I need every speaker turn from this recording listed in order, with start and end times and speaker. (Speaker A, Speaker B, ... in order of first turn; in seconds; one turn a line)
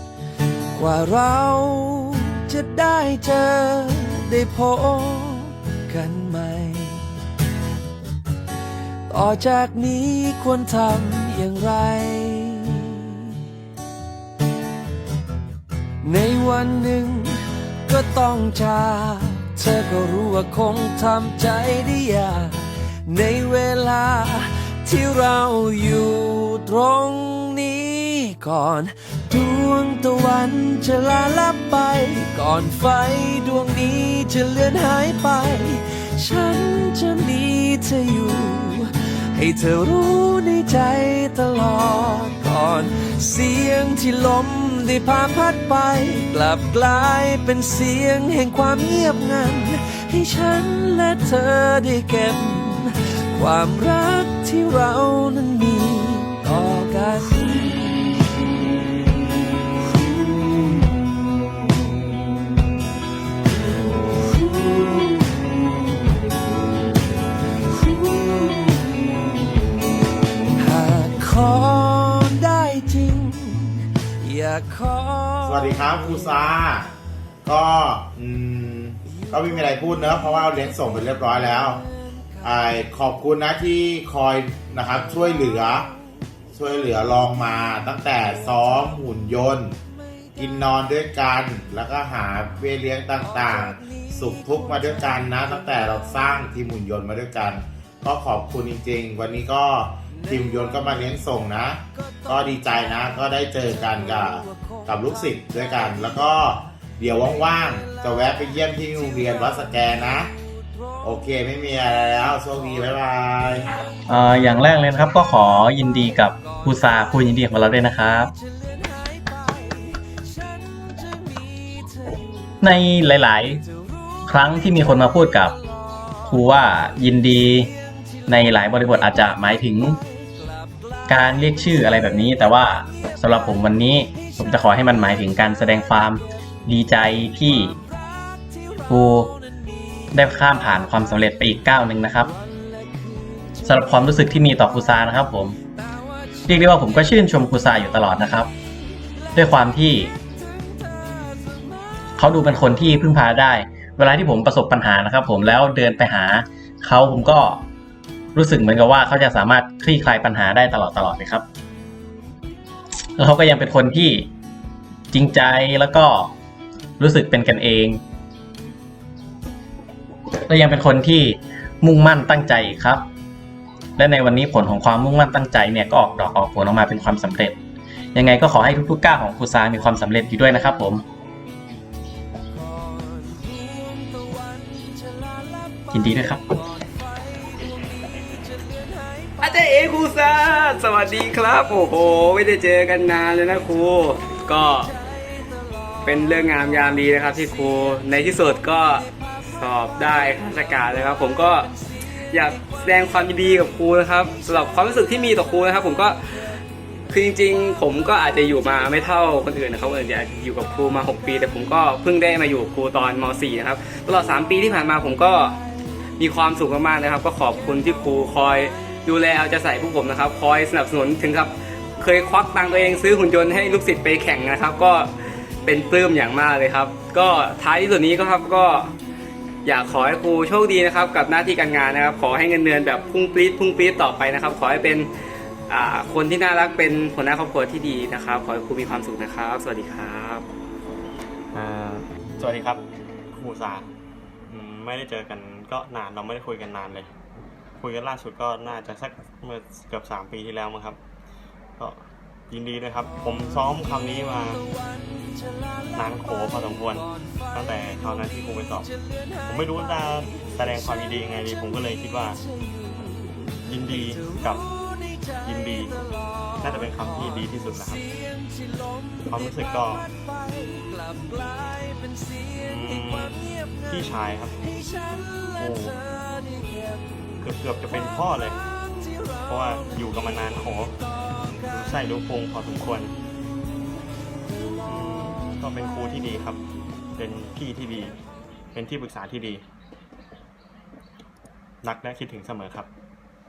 Speaker A: 0.7-7.1
Speaker A: 9.1-13.4
Speaker A: 16.0-58.1
Speaker A: 64.5-65.5
Speaker A: 67.7-69.4
Speaker A: 70.5-75.6
Speaker B: 75.5-76.9
Speaker B: 77.4-81.8
Speaker B: 82.4-85.9
Speaker B: 86.5-89.8
Speaker B: 90.4-110.3
Speaker B: 111.0-113.7
Speaker C: 114.1-118.3
Speaker A: 119.5-119.8
Speaker C: 122.6-123.6
Speaker C: 124.3-125.6
Speaker C: 126.2-127.7
Speaker C: 128.3-130.0
Speaker C: 131.1-137.8
Speaker C: 138.9-139.3
Speaker C: 140.1-142.3
Speaker C: 143.6-145.6
Speaker C: 146.5-148.5
Speaker C: 149.3-150.1
Speaker C: 152.2-157.6
Speaker C: 158.3-161.4
Speaker C: 163.2-164.3
Speaker C: 165.1-166.3
Speaker C: 167.0-168.0
Speaker C: 170.4-173.0
Speaker C: 174.0-177.6
Speaker C: 178.1-181.0
Speaker A: 183.1-184.1
Speaker C: 185.9-186.4
Speaker D: 189.4-194.9
Speaker D: 196.0-199.0
Speaker D: 199.6-201.7
Speaker D: 202.3-206.2
Speaker D: 207.1-215.6
Speaker D: 216.2-225.1
Speaker D: 225.6-228.9
Speaker D: 229.6-235.1
Speaker D: 235.7-240.4
Speaker E: 241.5-242.8
Speaker E: 243.3-243.9
Speaker E: 244.5-247.1
Speaker E: 247.8-251.0
Speaker E: 251.8-254.6
Speaker E: 255.9-258.9
Speaker E: 259.5-262.4
Speaker E: 263.7-264.6
Speaker E: 265.4-266.0
Speaker E: 266.6-268.1
Speaker E: 269.3-270.1
Speaker A: 270.8-271.7
Speaker E: 272.6-273.4
Speaker E: 273.9-274.6
Speaker E: 275.6-276.0
Speaker E: 277.4-278.6
Speaker E: 279.5-281.0
Speaker E: 281.7-283.1
Speaker E: 284.9-286.6
Speaker E: 287.2-288.2
Speaker E: 288.7-289.6
Speaker E: 291.8-292.9